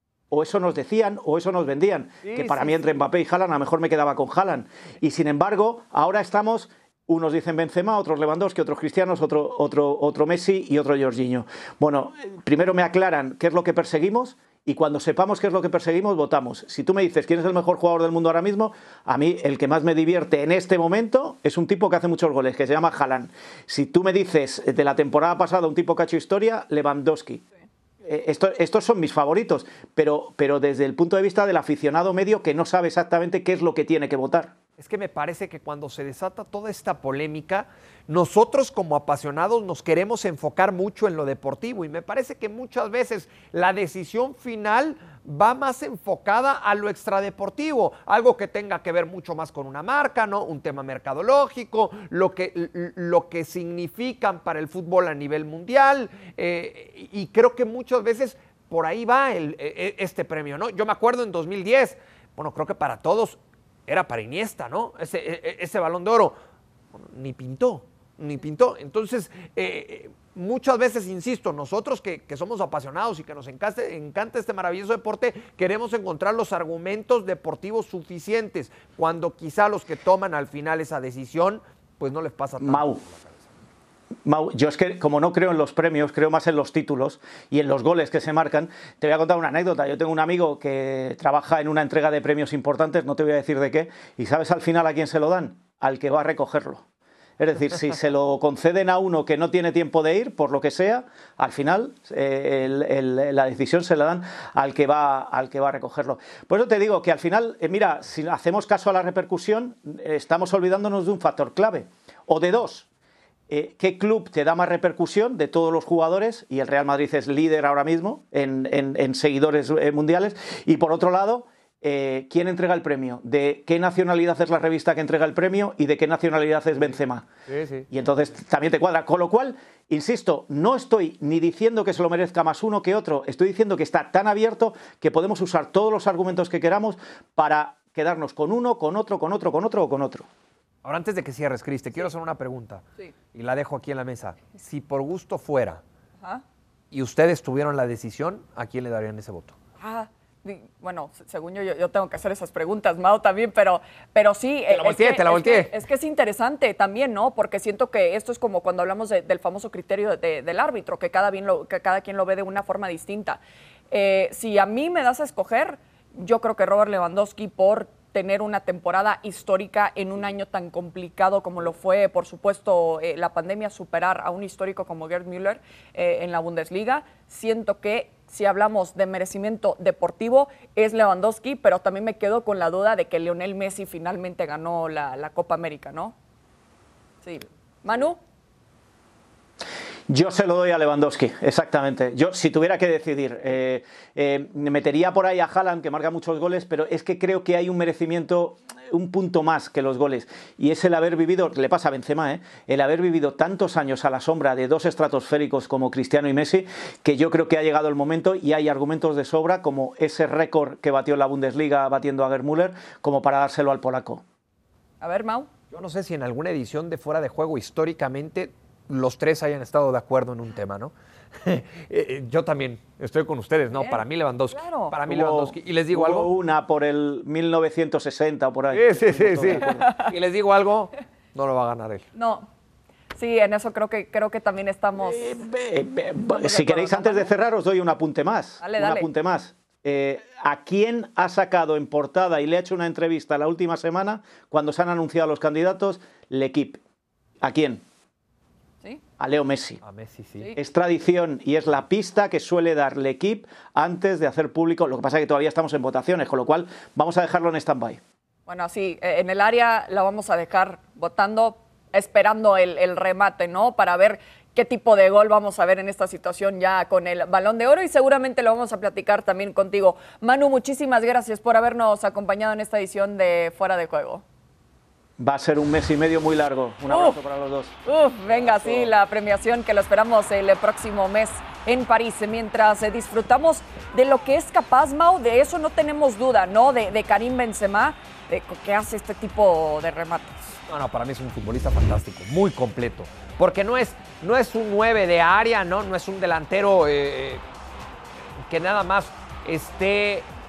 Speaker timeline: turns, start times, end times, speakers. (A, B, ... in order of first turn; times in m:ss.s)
0:00.3-0:27.4 A
0:02.2-0:02.7 B
0:28.0-0:34.5 A
0:34.8-1:06.4 B
1:06.9-1:23.6 B
1:22.6-1:23.0 A
1:24.3-1:36.8 A
1:37.4-1:52.9 A
1:53.5-2:07.3 A
2:07.5-2:07.9 B
2:07.9-2:20.3 A
2:20.8-2:25.8 B
2:26.9-2:29.6 B
2:29.8-2:43.4 C
2:34.7-2:35.7 B
2:43.9-3:06.2 C
3:07.2-3:08.2 C
3:10.1-3:34.2 A
3:35.0-3:35.5 C
3:35.7-3:46.3 B
3:43.7-3:45.0 C
3:45.1-3:50.0 A
3:48.7-3:52.1 B
3:49.7-3:50.1 C
3:52.1-3:52.5 C
3:53.2-3:55.4 C
3:55.0-4:06.8 A
3:56.3-3:57.3 C
3:58.6-3:59.1 C
4:07.4-4:07.8 A
4:09.2-4:09.8 A
4:09.8-4:10.5 B
4:10.6-4:18.0 A
4:18.5-4:34.2 C
4:35.2-4:37.7 A
4:36.9-4:37.2 C
4:37.8-4:50.6 C
4:50.7-4:57.4 B
4:58.4-5:00.3 B